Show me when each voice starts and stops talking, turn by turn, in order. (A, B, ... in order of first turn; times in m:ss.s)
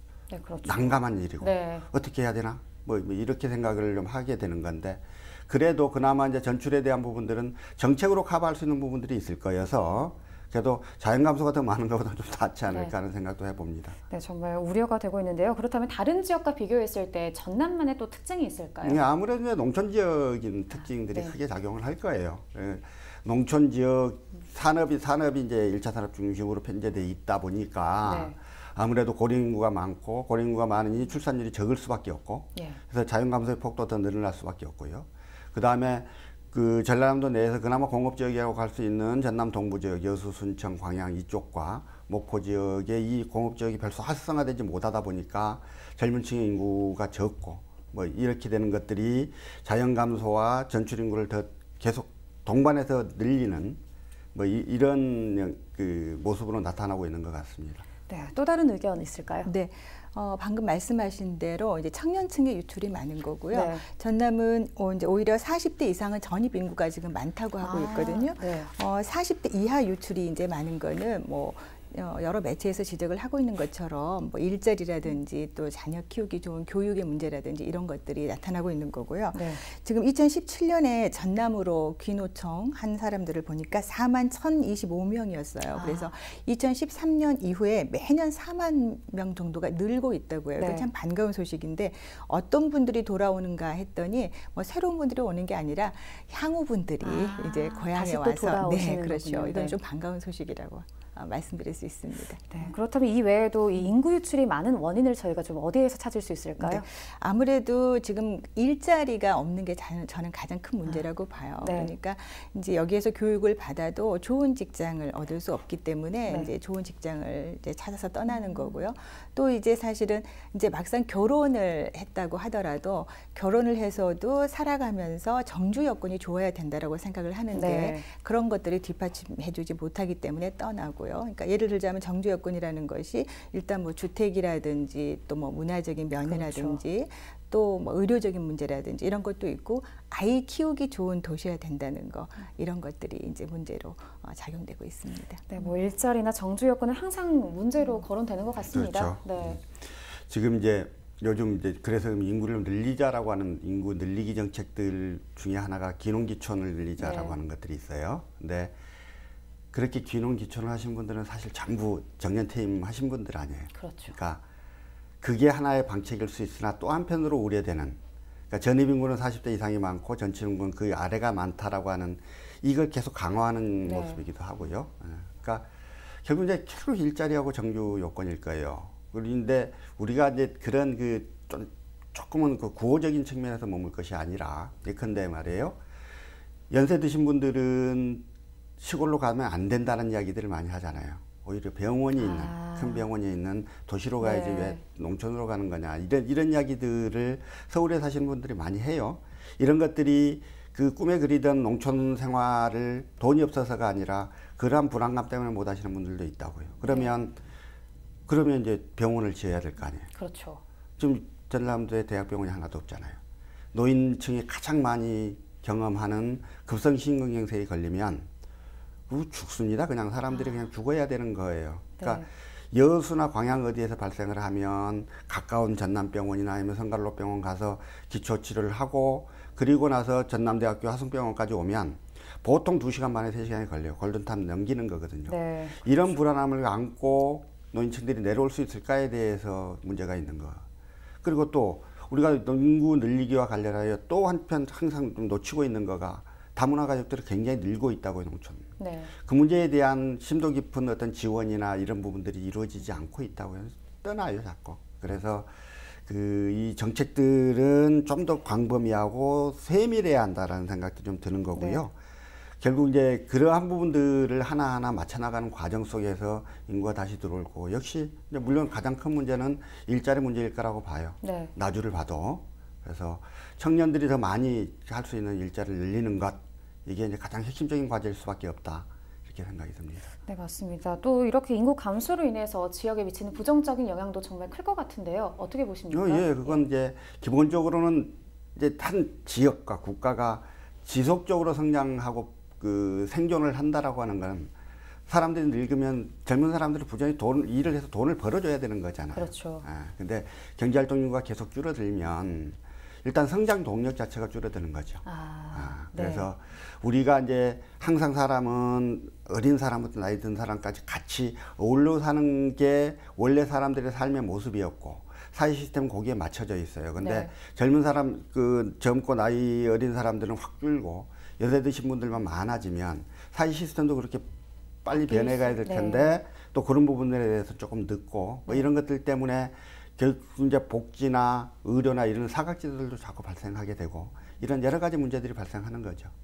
0:00.3-0:01.8 A
0:00.6-0:14.0 B
0:14.1-0:19.0 A
0:18.8-0:53.8 B
0:28.0-0:28.3 A
0:54.3-0:57.8 B
0:58.1-0:59.5 A
0:59.4-1:42.7 C
1:03.5-1:03.8 A
1:07.6-1:08.7 A
1:19.3-1:19.6 A
1:25.7-1:26.1 A
1:30.6-1:30.9 A
1:37.0-1:39.8 A
1:42.5-1:46.9 A
1:46.6-2:25.5 C
1:51.6-1:51.9 A
1:56.3-1:56.5 A
1:58.3-1:58.8 A
2:07.5-2:08.0 A
2:16.2-2:16.8 A
2:25.5-2:29.6 A
2:28.7-2:38.7 B
2:37.0-2:37.4 A
2:39.7-2:44.4 B
2:43.8-2:44.1 A
2:45.2-2:48.0 B
2:48.5-2:55.7 B
2:53.8-2:54.2 A
2:56.2-3:05.8 B
3:06.7-3:08.2 B
3:08.8-3:27.4 B
3:12.2-3:13.0 A
3:14.2-3:14.8 A
3:28.3-3:30.1 B
3:30.1-3:30.6 A
3:31.0-3:33.2 B
3:33.7-3:38.3 B
3:39.1-4:00.6 B
3:42.0-3:42.2 A
3:55.3-3:55.9 A
4:01.2-4:15.5 B
4:08.8-4:09.1 A
4:16.0-4:21.9 B
4:21.6-4:21.8 A
4:22.6-4:40.0 B
4:31.2-4:31.5 A
4:40.2-4:46.6 A
4:45.9-4:54.5 B
4:55.1-5:24.3 B
4:59.1-4:59.6 A
5:05.0-5:06.3 A
5:17.0-5:17.3 A
5:24.8-5:36.1 B
5:25.0-5:26.1 A